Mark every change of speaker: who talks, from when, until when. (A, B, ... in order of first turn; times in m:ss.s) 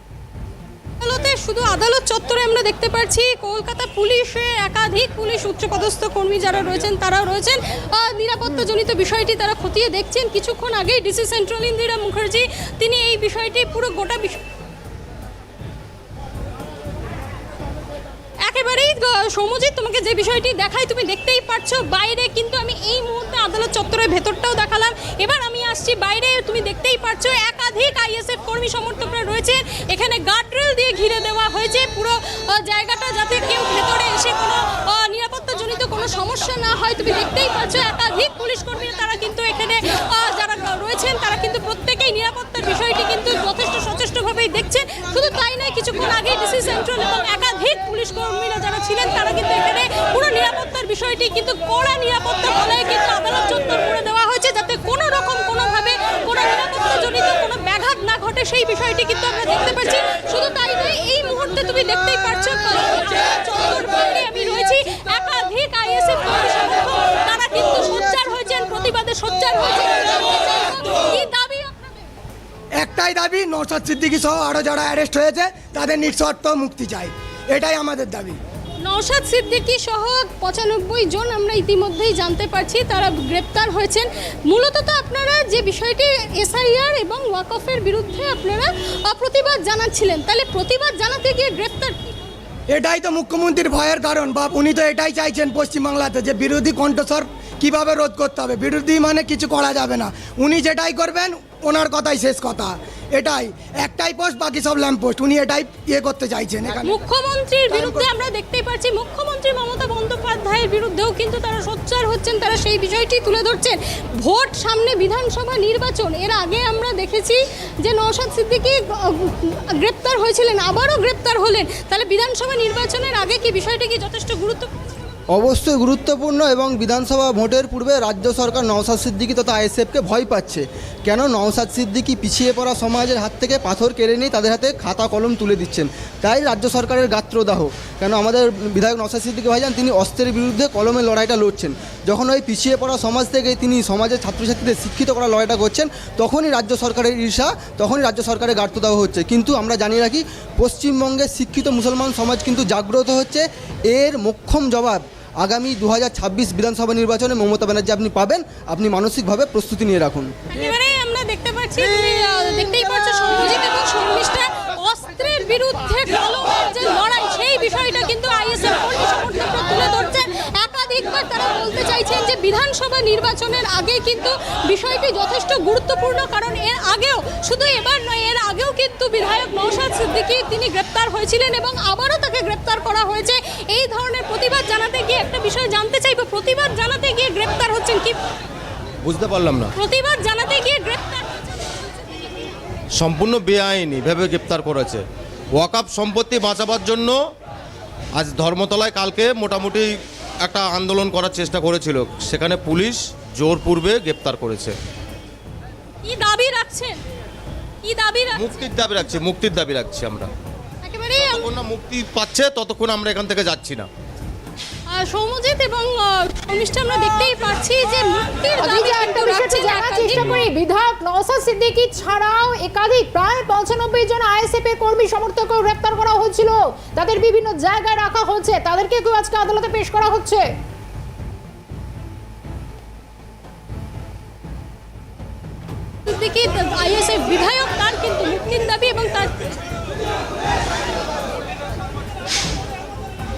0:01.0-0:14.4 A
0:18.4-1:12.0 A
1:12.8-1:18.4 B
1:18.8-1:32.1 A
1:32.7-1:47.0 B
1:46.8-2:04.8 A
1:47.7-1:48.1 B
2:05.3-2:40.3 C
2:40.5-3:08.1 A
3:09.0-3:09.7 D
3:09.8-3:11.3 A
3:13.0-3:15.0 D
3:15.6-3:17.2 D
3:18.2-3:24.7 D
3:26.0-3:27.0 A
3:27.8-3:28.6 A
3:28.4-3:30.3 D
3:30.8-3:31.5 A
3:31.2-3:33.9 D
3:34.9-3:40.4 A
3:38.6-3:50.4 E
3:56.0-3:59.4 A